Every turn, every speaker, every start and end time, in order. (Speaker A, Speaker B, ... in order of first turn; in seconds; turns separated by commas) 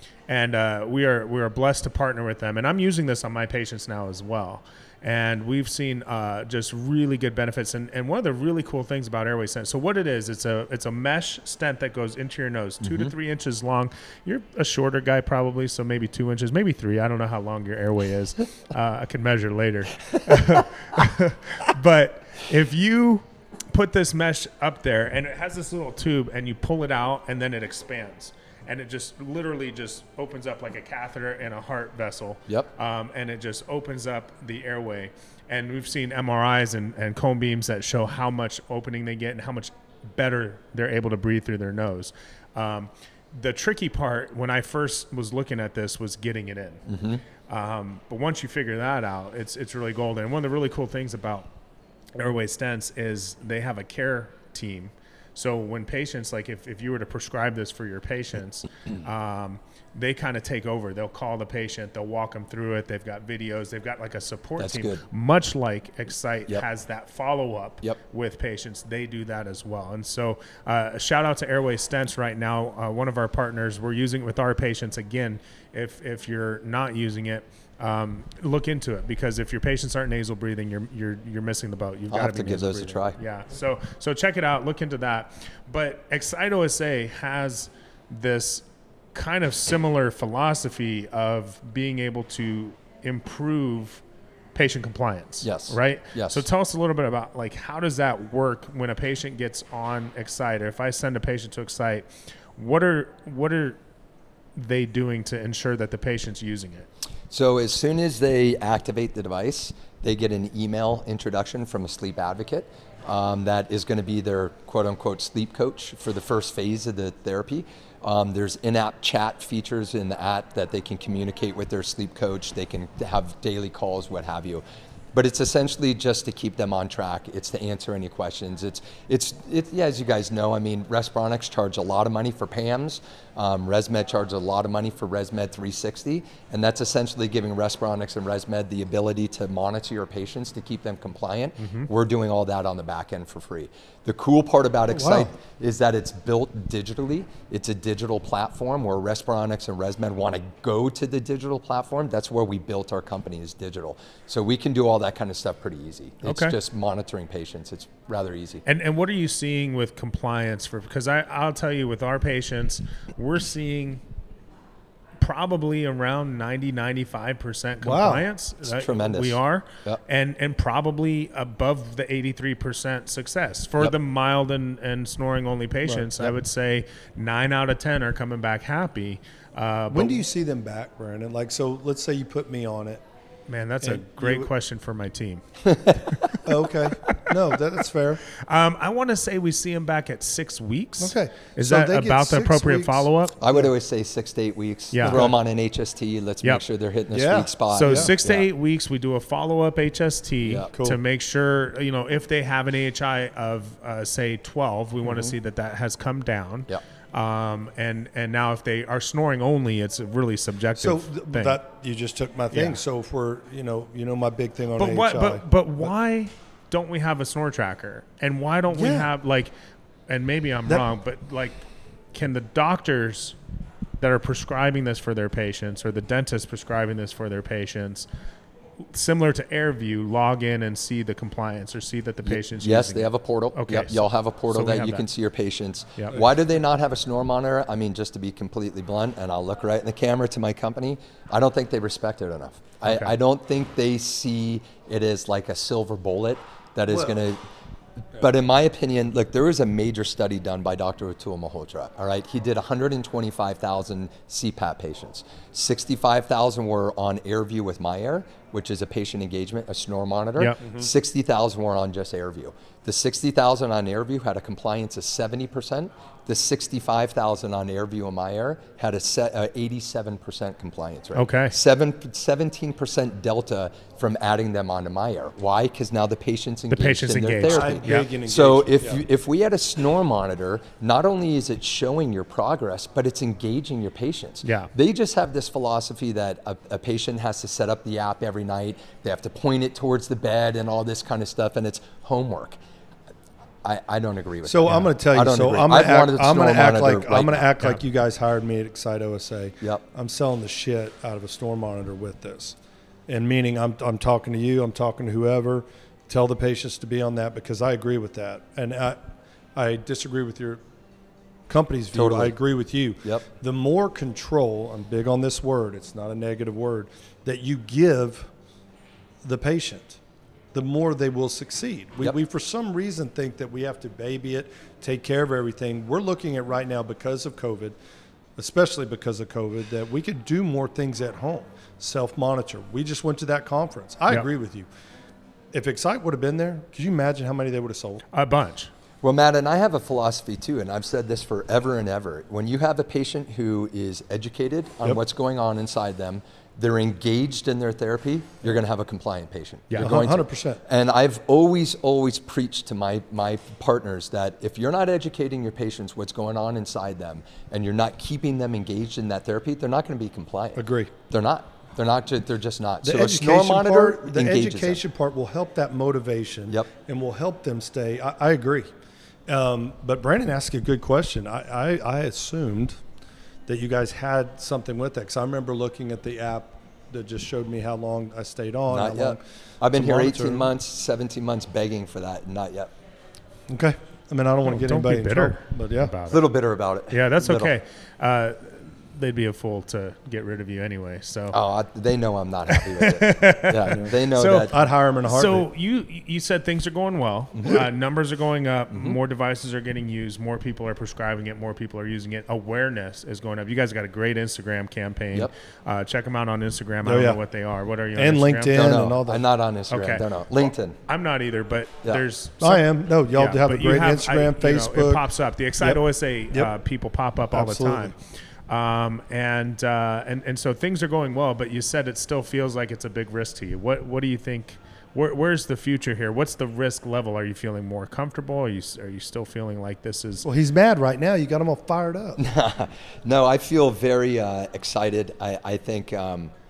Speaker A: 0.3-46.9, Speaker B: 12.8-13.1, Speaker B: 46.9-47.2, Speaker A: 47.5-51.5, Speaker A: 52.1-94.0, Speaker B: 64.6-65.0, Speaker B: 82.1-83.2, Speaker A: 94.5-103.8, Speaker B: 95.4-96.5, Speaker A: 104.5-106.9, Speaker B: 107.3-124.6, Speaker B: 125.1-158.6, Speaker A: 141.6-141.9, Speaker C: 144.9-145.3, Speaker A: 156.2-156.6, Speaker A: 158.7-164.0, Speaker A: 165.2-180.2, Speaker C: 167.8-168.2, Speaker B: 168.6-170.0, Speaker C: 175.9-176.3, Speaker C: 179.9-183.0, Speaker A: 183.5-185.4, Speaker C: 183.8-184.5, Speaker B: 185.7-186.1, Speaker A: 186.1-186.4, Speaker C: 186.4-188.2, Speaker A: 188.3-193.4, Speaker C: 191.0-193.7, Speaker B: 193.4-198.5, Speaker A: 194.9-195.3, Speaker C: 195.0-195.3, Speaker C: 197.1-198.1, Speaker A: 197.7-211.6, Speaker B: 200.4-200.7, Speaker C: 200.7-201.0, Speaker C: 205.1-205.3, Speaker C: 210.7-215.9, Speaker A: 212.5-212.8, Speaker A: 214.8-219.5, Speaker C: 218.7-219.1, Speaker A: 220.1-221.6, Speaker A: 222.1-223.4, Speaker A: 224.0-228.1, Speaker A: 228.8-235.0, Speaker B: 232.3-247.4, Speaker A: 242.8-243.2, Speaker B: 248.2-292.6, Speaker A: 260.4-260.6, Speaker A: 271.1-271.6, Speaker A: 276.7-278.1, Speaker C: 277.5-279.0, Speaker A: 284.4-284.7, Speaker B: 293.6-297.5, Speaker C: 294.4-302.6, Speaker C: 303.1-309.0, Speaker C: 309.6-310.6, Speaker C: 311.5-318.3, Speaker B: 311.9-312.4, Speaker C: 319.2-320.0, Speaker C: 320.5-327.8, Speaker C: 328.4-334.7, Speaker C: 335.5-338.1, Speaker A: 338.1-338.7, Speaker B: 339.0-364.8, Speaker C: 349.8-350.6, Speaker C: 360.6-360.9, Speaker C: 362.8-368.7, Speaker C: 369.3-372.8, Speaker C: 373.5-379.2, Speaker B: 378.7-382.7, Speaker C: 379.7-380.5, Speaker C: 383.5-385.9, Speaker A: 384.4-386.2, Speaker B: 386.1-387.5, Speaker A: 386.9-391.4, Speaker B: 391.3-394.5, Speaker A: 392.5-408.8, Speaker C: 394.5-395.5, Speaker B: 397.3-397.7, Speaker B: 398.7-399.0, Speaker C: 406.9-407.2, Speaker C: 407.9-409.2, Speaker B: 408.5-410.8, Speaker A: 409.7-418.0, Speaker C: 412.4-415.0, Speaker C: 417.3-417.9, Speaker A: 418.5-430.3, Speaker C: 430.2-432.2, Speaker B: 432.2-436.3